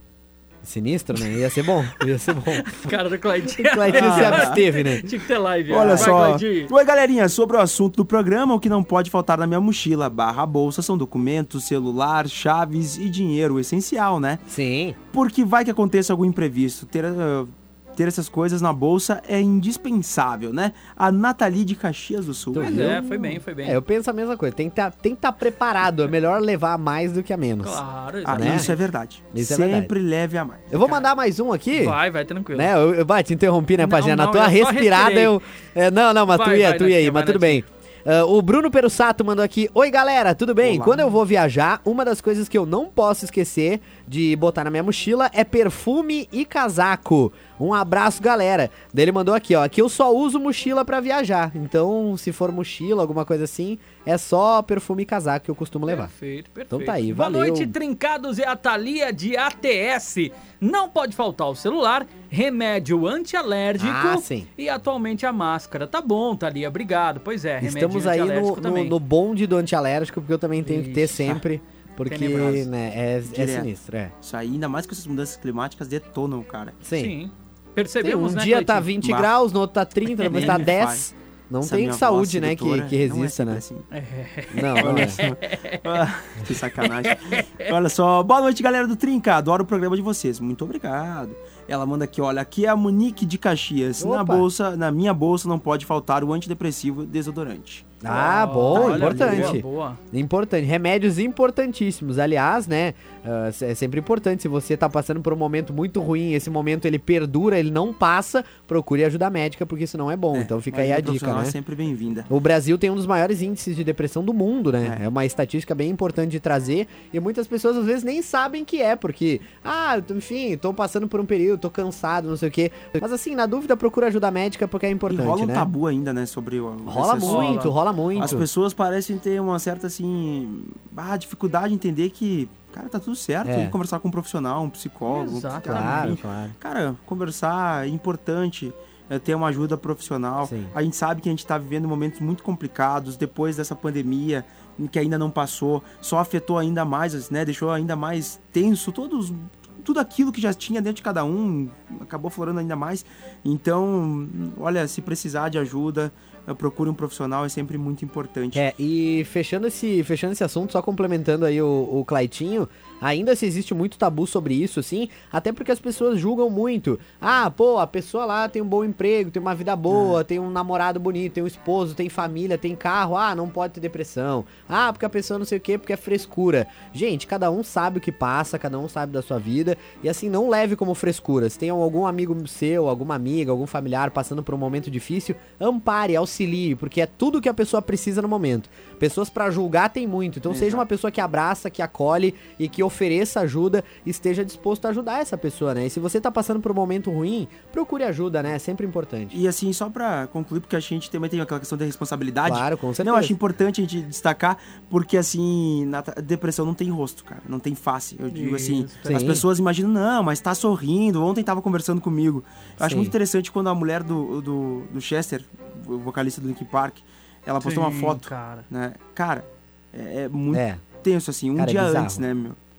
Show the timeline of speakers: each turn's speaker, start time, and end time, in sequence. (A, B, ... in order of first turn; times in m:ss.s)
0:00.6-0:05.1 A
0:02.0-0:06.7 B
0:03.9-0:04.6 C
0:05.7-0:14.4 C
0:05.8-0:06.2 A
0:14.5-0:15.0 A
0:15.1-0:23.0 C
0:22.5-0:23.8 B
0:22.5-0:27.8 A
0:27.6-0:28.8 B
0:28.2-0:30.7 C
0:28.3-0:28.7 A
0:29.3-0:29.9 A
0:30.7-0:32.0 A
0:30.8-0:31.0 B
0:31.7-0:32.7 B
0:32.5-0:56.1 A
0:33.8-0:35.4 B
0:36.3-0:37.6 B
0:40.6-0:41.1 C
0:55.9-1:09.0 B
0:56.7-0:57.8 A
1:03.8-1:04.5 A
1:07.6-1:14.1 A
1:10.6-1:11.4 B
1:12.1-1:12.7 B
1:13.3-1:13.7 C
1:14.2-1:16.8 C
1:16.8-1:17.2 A
1:16.9-1:18.9 B
1:18.0-1:23.6 A
1:19.0-1:19.3 C
1:20.2-1:20.7 B
1:20.2-1:21.1 C
1:21.6-1:23.9 C
1:23.9-1:26.0 B
1:24.5-1:25.2 A
1:24.8-1:38.0 C
1:26.8-1:27.7 B
1:34.0-1:34.5 A
1:38.0-1:51.6 A
1:38.1-1:40.0 B
1:38.7-1:39.6 C
1:50.3-1:52.3 C
1:52.3-2:05.7 A
2:05.1-2:38.6 C
2:06.9-2:08.5 A
2:07.3-2:08.4 B
2:13.4-2:13.8 A
2:15.1-2:16.2 B
2:15.6-2:16.6 A
2:20.4-2:20.7 A
2:38.5-3:19.4 A
3:10.5-3:10.8 C
3:19.3-3:42.6 C
3:22.4-3:23.4 A
3:28.3-3:29.4 B
3:29.0-3:29.4 A
3:32.8-3:33.1 A
3:37.6-3:38.7 B
3:40.5-3:40.8 A
3:41.6-3:42.2 A